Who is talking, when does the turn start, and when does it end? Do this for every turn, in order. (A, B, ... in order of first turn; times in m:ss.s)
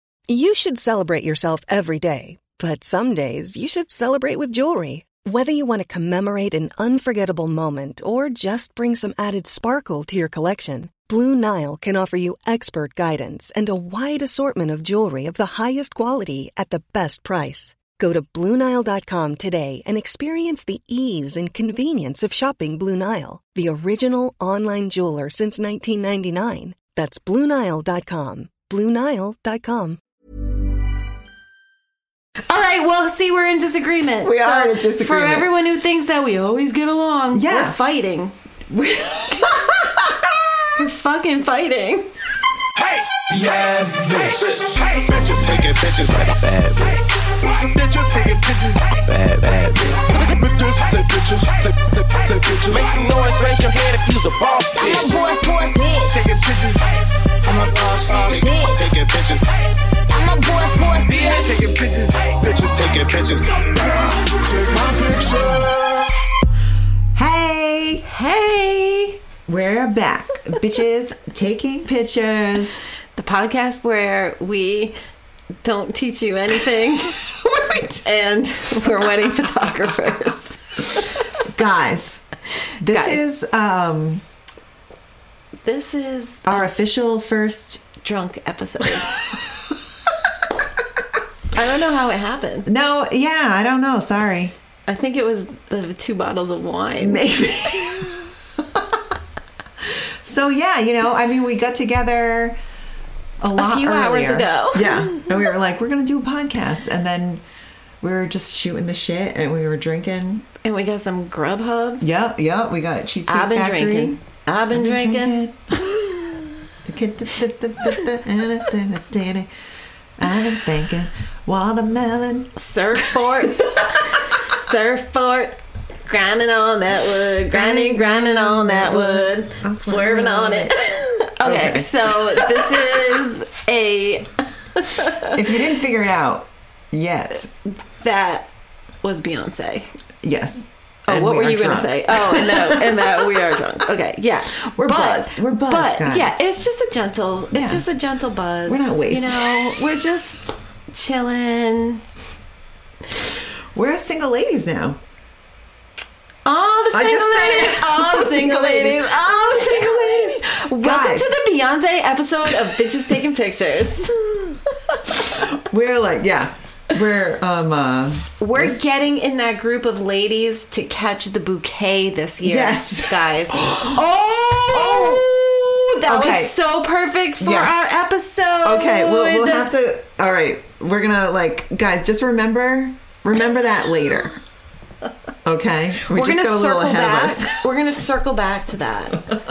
0:00.3-0:30.0 A
0:32.5-0:38.3 B
0:34.2-0:35.5 C
0:37.3-0:37.8 C
0:38.7-0:40.6 C
0:40.8-0:42.1 B
0:42.8-0:55.1 D
0:54.7-0:56.3 E
0:56.1-0:59.5 D
0:58.2-0:59.0 E
1:00.1-1:01.4 E
1:01.0-1:05.8 D
1:07.1-1:08.0 C
1:08.0-1:09.2 B
1:09.5-1:12.9 C
1:13.1-1:15.0 B
1:15.6-1:17.2 B
1:17.2-1:18.0 C
1:18.0-1:21.1 B
1:21.4-1:22.2 C
1:22.8-1:24.2 C
1:22.8-1:23.2 B
1:25.6-1:26.7 B
1:26.4-1:27.9 C
1:28.0-1:29.2 B
1:31.5-1:32.7 B
1:32.6-1:34.5 C
1:34.9-1:38.0 B
1:37.0-1:39.0 C
1:39.8-1:42.6 C
1:43.4-1:47.4 C
1:43.6-1:45.4 B
1:48.0-1:50.4 C
1:50.6-1:52.0 B
1:52.0-1:54.2 C
1:53.3-1:55.4 B
1:54.7-1:56.3 C
1:56.8-1:59.5 C
2:00.2-2:03.9 C
2:02.6-2:15.4 B
2:07.5-2:13.0 C
2:15.2-2:17.5 C
2:18.0-2:18.5 B
2:19.0-2:19.9 B
2:20.2-2:23.4 C
2:21.1-2:32.0 B
2:24.6-2:26.4 C
2:27.5-2:27.8 C
2:28.6-2:29.8 C
2:33.7-2:35.0 C
2:36.4-2:44.2 B
2:36.9-2:41.3 C
2:45.2-2:48.8 C
2:48.4-2:59.7 B
2:52.4-2:55.4 C
2:56.0-2:56.6 C
2:57.4-2:57.9 C
2:58.6-3:04.4 C
3:05.4-3:07.8 C
3:06.0-3:09.2 B